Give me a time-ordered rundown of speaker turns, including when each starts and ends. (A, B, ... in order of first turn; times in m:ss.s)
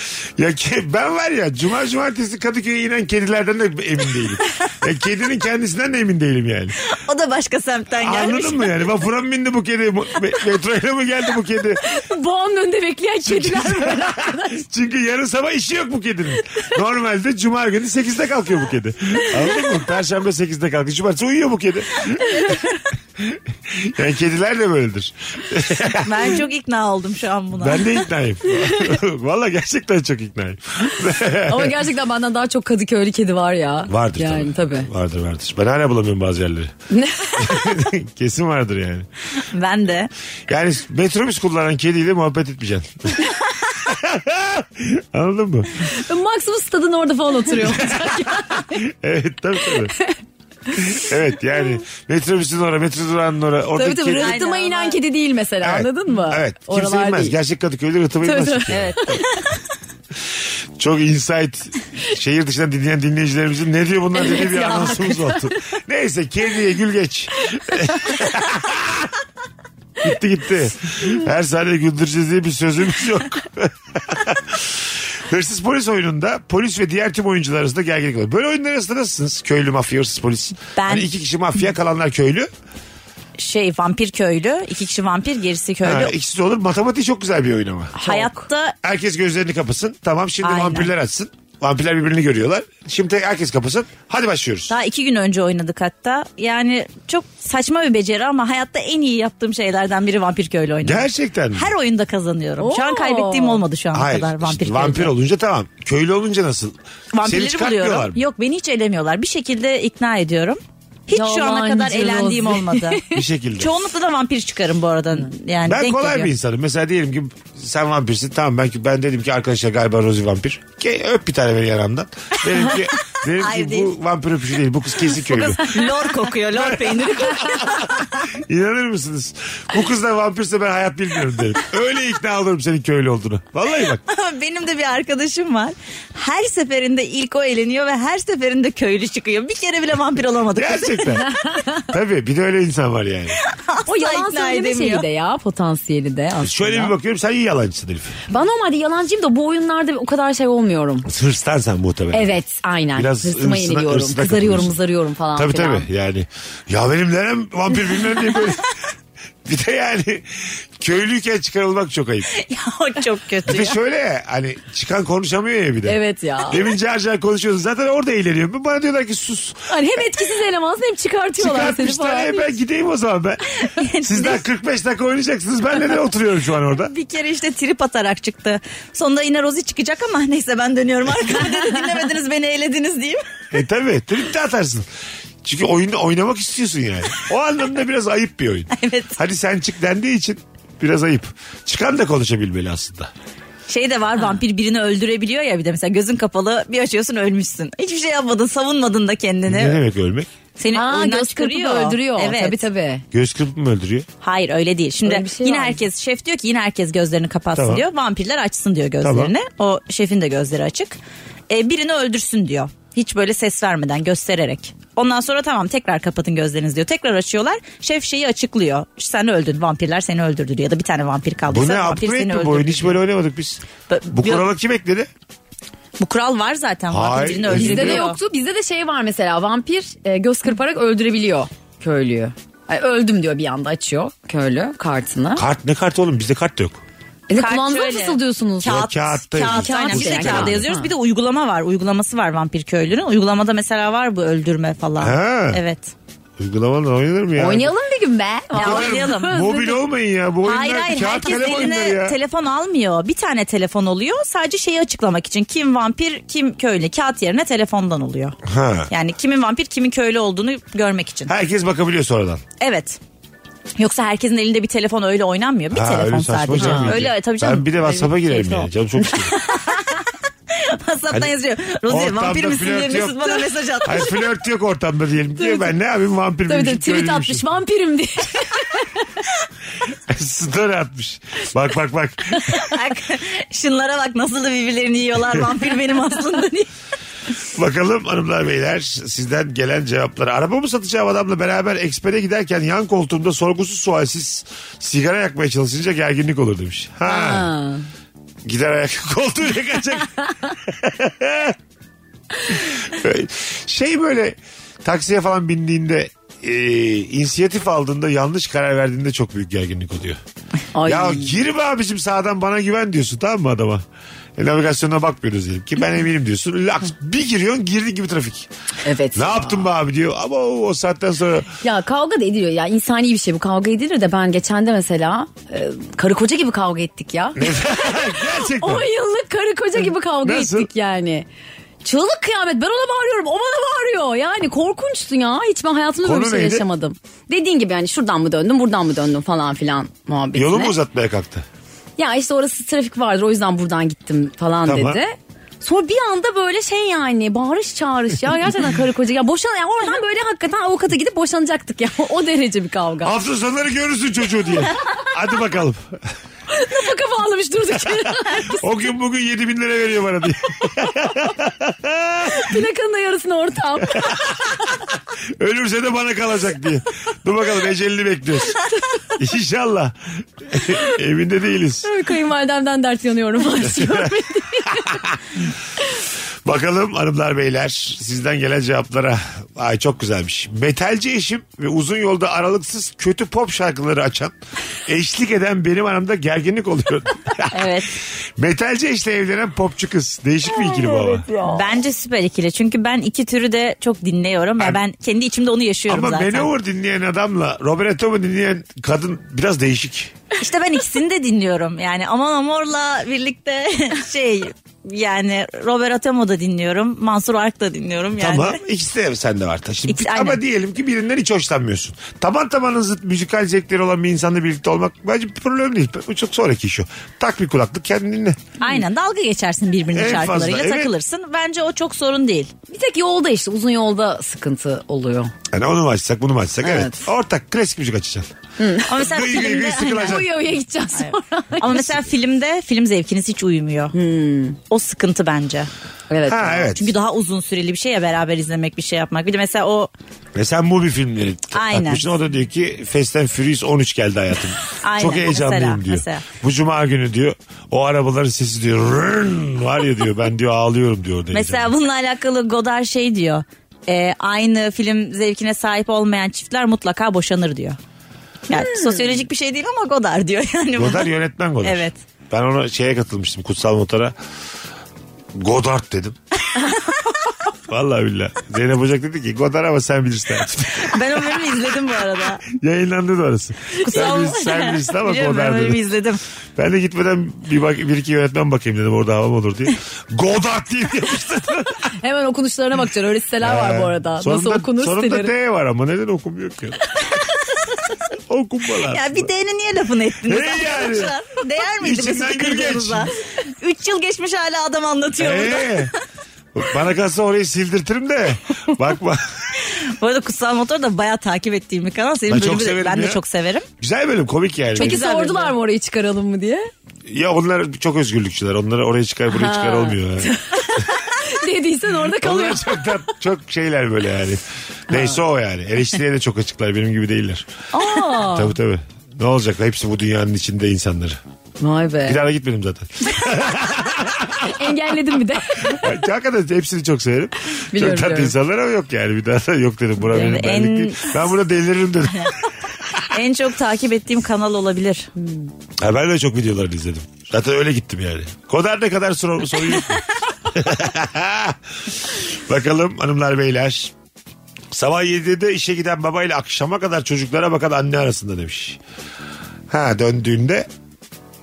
0:00.4-0:06.8 A
0:06.9-0:08.9 B
0:08.0-0:11.8 A
0:11.8-0:14.6 C
0:13.3-0:22.5 A
0:22.3-0:22.6 C
0:23.2-0:26.3 A
0:26.0-0:28.0 B
0:27.6-0:31.8 A
0:31.5-0:34.9 C
0:33.9-0:36.7 A
0:36.9-0:37.7 C
0:37.4-0:39.1 A
0:39.4-0:40.1 B
0:40.5-0:43.3 A
0:43.8-0:45.7 A
0:45.9-0:48.8 C
0:47.6-0:49.9 A
0:50.8-0:54.4 A
0:53.7-0:57.4 C
0:54.2-0:55.0 B
0:55.6-0:59.2 A
0:58.2-0:59.2 C
0:58.7-0:59.3 B
1:00.8-1:09.1 A
1:04.1-1:05.6 C
1:07.7-1:08.2 C
1:10.0-1:22.5 A
1:20.8-1:21.1 B
1:23.4-1:26.1 B
1:25.8-1:28.0 A
1:28.0-1:28.4 C
1:28.0-1:28.8 B
1:28.8-1:34.7 A
1:30.4-1:30.9 B
1:34.7-1:45.1 B
1:40.8-1:41.7 A
1:42.6-1:43.6 C
1:43.9-1:48.2 A
1:47.1-1:53.0 B
1:51.1-1:53.2 C
1:53.1-1:53.8 A
1:53.6-1:56.3 B
1:55.6-2:14.0 A
2:03.2-2:03.9 B
2:05.1-2:08.3 B
2:14.1-2:21.2 B
2:20.6-2:21.3 A
2:21.5-2:21.8 C
2:21.9-2:23.4 A
2:23.4-2:25.1 B
2:23.9-2:26.9 C
2:26.4-2:28.2 A
2:28.3-2:31.1 C
2:31.1-2:32.4 A
2:32.1-2:35.9 C
2:33.0-2:34.8 A
2:35.4-2:38.7 A
2:39.4-2:42.3 A
2:42.3-2:43.8 B
2:43.5-2:50.0 A
2:45.9-2:46.6 C
2:49.7-2:52.5 C
2:51.4-2:53.4 A
2:53.8-2:54.4 B
2:54.0-2:56.9 A
2:56.8-3:03.2 B
3:03.5-3:04.9 A
3:05.4-3:13.1 A
3:08.7-3:09.2 B
3:13.7-3:19.8 B
3:19.5-3:20.3 A
3:20.6-3:22.7 B
3:20.7-3:23.0 C
3:23.1-3:24.1 A
3:24.2-3:31.0 B
3:25.0-3:25.8 C
3:27.6-3:27.9 A
3:29.0-3:29.3 A
3:31.5-3:43.0 B
3:41.5-3:45.1 A
3:43.9-3:44.5 B
3:46.0-3:48.2 B
3:46.9-3:48.1 A
3:47.5-3:55.4 C
3:55.4-3:56.8 A
3:57.3-3:58.9 C
3:57.3-4:05.9 B
3:58.6-4:00.6 A
3:59.4-4:00.9 C
4:05.0-4:05.6 A
4:06.4-4:07.7 A
4:07.4-4:09.8 C
4:08.6-4:12.2 A
4:08.6-4:09.3 B
4:10.4-4:18.4 B
4:18.4-4:18.9 A
4:18.9-4:21.3 B
4:21.3-4:22.4 A
4:22.6-4:23.0 B
4:23.8-4:28.6 B
4:25.7-4:29.4 A
4:26.6-4:27.4 C
4:29.3-4:30.0 B
4:30.5-4:34.2 B
4:31.9-4:37.5 A
4:35.4-4:35.7 C
4:36.5-4:38.9 C
4:40.1-4:42.6 A
4:42.5-4:46.7 B
4:47.5-4:57.5 A
4:57.0-4:57.9 C
4:58.4-5:01.6 A
5:02.5-5:10.2 A
5:10.7-5:11.4 C
5:10.9-5:13.8 A
5:14.4-5:18.5 A
5:18.8-5:19.7 C
5:19.2-5:21.5 A
5:21.6-5:31.3 C
5:27.4-5:28.9 A
5:30.2-5:30.7 A
5:31.8-5:40.8 C
5:36.0-5:36.7 A
5:40.3-5:41.4 A
5:42.0-5:53.2 C
5:44.6-5:45.0 A
5:53.0-5:56.0 A
5:56.5-5:58.7 C
5:58.0-6:02.6 A
6:02.3-6:04.4 C
6:03.9-6:11.9 A
6:11.8-6:15.0 C
6:13.7-6:14.2 A
6:14.8-6:15.2 A
6:16.4-6:24.4 A
6:24.9-6:27.8 A
6:27.5-6:27.9 B
6:28.4-6:31.3 A
6:30.9-6:31.6 C
6:31.4-6:36.5 B
6:35.9-6:40.2 A
6:40.4-6:48.6 B
6:48.2-6:58.4 A
6:49.9-6:50.4 B
6:58.6-7:02.5 B
6:59.9-7:00.9 A
7:02.7-7:05.3 C
7:05.5-7:08.3 A
7:06.6-7:07.1 C
7:08.6-7:08.9 C
7:08.9-7:10.4 B
7:08.9-7:10.3 A
7:10.0-7:12.0 C
7:10.9-7:14.0 B
7:13.9-7:14.6 C
7:14.7-7:15.7 B
7:16.1-7:16.7 C
7:16.3-7:16.9 A
7:16.7-7:19.9 B
7:20.4-7:31.7 A
7:21.5-7:22.0 B
7:24.8-7:26.3 B
7:31.3-7:37.8 B
7:38.5-7:41.1 B
7:40.8-7:44.2 A
7:41.6-7:42.0 B
7:45.3-7:46.2 A
7:47.7-7:55.8 A
7:50.8-7:52.4 B
7:53.8-7:56.2 B
7:56.6-8:01.9 A
8:02.0-8:05.3 C
8:03.4-8:07.0 A
8:08.1-8:09.3 A
8:08.9-8:16.0 B
8:10.2-8:11.2 A
8:11.8-8:13.1 A
8:15.2-8:15.9 A
8:16.5-8:19.4 A
8:19.6-8:23.7 B
8:22.3-8:23.2 A
8:23.8-8:25.0 A
8:24.8-8:25.6 B
8:24.8-8:26.7 C
8:27.1-8:30.3 A
8:29.3-8:32.9 C
8:32.1-8:37.5 A
8:34.9-8:35.2 C
8:37.7-8:38.6 C
8:38.1-8:41.2 A
8:41.6-8:42.2 C
8:42.1-8:44.7 A
8:44.4-8:46.0 C
8:45.6-8:52.5 A
8:47.7-8:48.4 C
8:50.1-8:51.2 B
8:53.0-8:55.1 B
8:55.2-8:55.5 C
8:55.8-9:03.9 A
9:04.7-9:08.8 A
9:09.7-9:10.7 A